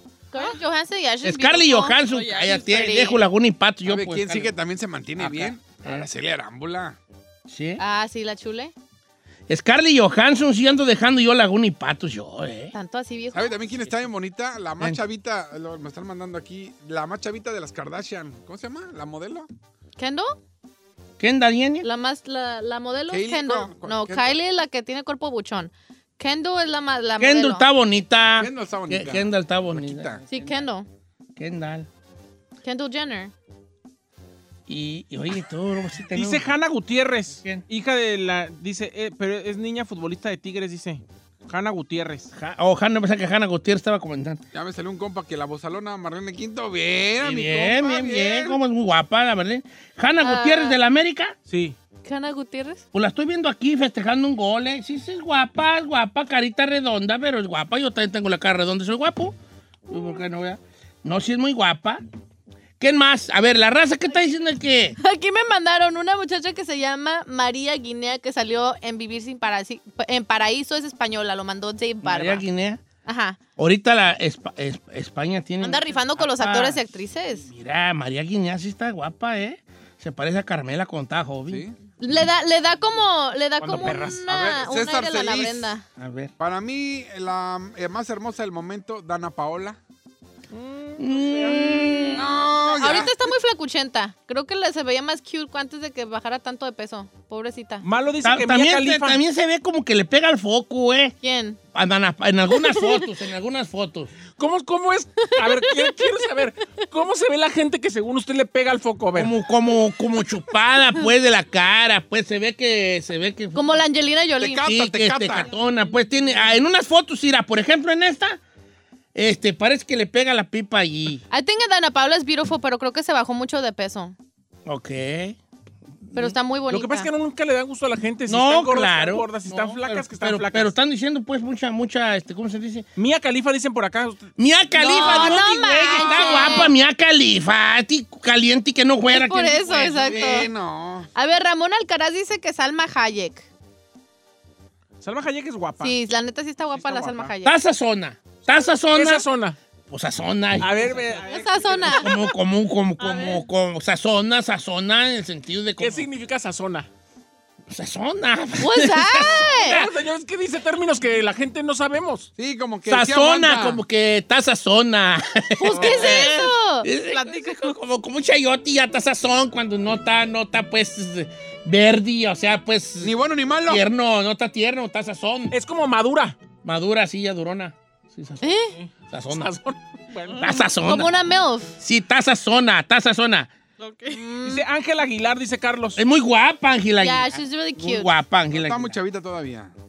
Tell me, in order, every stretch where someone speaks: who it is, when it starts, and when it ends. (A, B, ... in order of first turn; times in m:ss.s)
0:00.3-0:03.2 A
0:01.2-0:04.5 B
0:02.0-0:02.6 C
0:03.8-0:07.0 D
0:05.2-0:06.1 B
0:07.5-0:07.8 B
0:07.8-0:08.7 A
0:09.5-0:12.7 B
0:12.7-0:13.6 A
0:13.3-0:19.5 D
0:20.0-0:20.4 A
0:21.2-0:21.9 B
0:21.8-0:27.6 A
0:23.1-0:24.3 D
0:27.2-0:30.6 B
0:28.4-0:30.2 D
0:30.3-0:30.9 A
0:31.4-0:31.9 B
0:32.6-0:33.3 A
0:34.7-0:36.5 B
0:36.1-0:42.3 E
0:42.3-0:44.4 B
0:44.5-0:48.6 D
0:47.2-0:51.4 B
0:50.2-0:50.8 A
0:51.5-0:51.8 E
0:52.0-0:52.8 A
0:52.9-0:59.4 B
0:59.9-1:02.0 B
1:02.8-1:05.0 B
1:05.0-1:12.4 A
1:12.0-1:12.8 B
1:13.0-1:13.4 A
1:13.6-1:16.9 B
1:15.6-1:17.5 A
1:17.4-1:21.6 B
1:21.5-1:21.8 D
1:22.0-1:25.8 A
1:23.6-1:24.2 E
1:24.3-1:25.7 D
1:26.0-1:26.3 B
1:26.4-1:29.8 D
1:30.5-1:32.1 E
1:31.0-1:32.3 B
1:32.1-1:33.1 D
1:32.7-1:37.9 A
1:37.8-1:39.2 E
1:38.2-1:41.1 B
1:41.2-1:41.6 A
1:41.7-1:44.1 B
1:42.6-1:43.0 A
1:44.3-1:49.3 E
1:45.3-1:45.7 A
1:49.1-1:53.8 B
1:53.5-1:54.6 A
1:54.4-1:55.5 D
1:54.6-1:58.4 B
1:59.1-2:01.2 B
2:01.3-2:04.1 A
2:04.6-2:05.4 B
2:06.1-2:07.1 A
2:06.7-2:10.7 E
2:08.3-2:12.9 B
2:13.0-2:15.4 E
2:14.4-2:20.5 B
2:14.8-2:16.7 A
2:19.1-2:20.5 A
2:19.7-2:21.1 D
2:21.1-2:23.5 A
2:25.0-2:26.0 E
2:25.8-2:27.6 A
2:26.8-2:27.3 E
2:27.4-2:29.2 B
2:28.9-2:29.6 E
2:29.9-2:31.2 B
2:30.6-2:32.1 E
2:31.1-2:32.1 A
2:31.8-2:36.1 B
2:33.0-2:33.4 C
2:35.8-2:36.9 E
2:37.7-2:39.9 B
2:38.6-2:39.8 A
2:39.6-2:42.3 E
2:42.4-2:43.8 D
2:42.9-2:53.1 B
2:45.6-2:46.9 A
2:45.7-2:46.2 E
2:47.1-2:47.8 C
2:53.0-2:53.8 D
2:53.6-2:55.6 B
2:55.5-2:56.4 E
2:56.6-2:58.4 B
2:58.4-2:58.8 A
2:58.7-3:00.5 E
2:59.1-2:59.5 B
3:00.4-3:01.1 B
3:00.8-3:01.8 A
3:01.8-3:03.5 B
3:03.8-3:04.4 C
3:04.1-3:04.6 A
3:04.4-3:06.0 E
3:06.0-3:09.0 B
3:07.0-3:08.1 A
3:08.5-3:09.7 D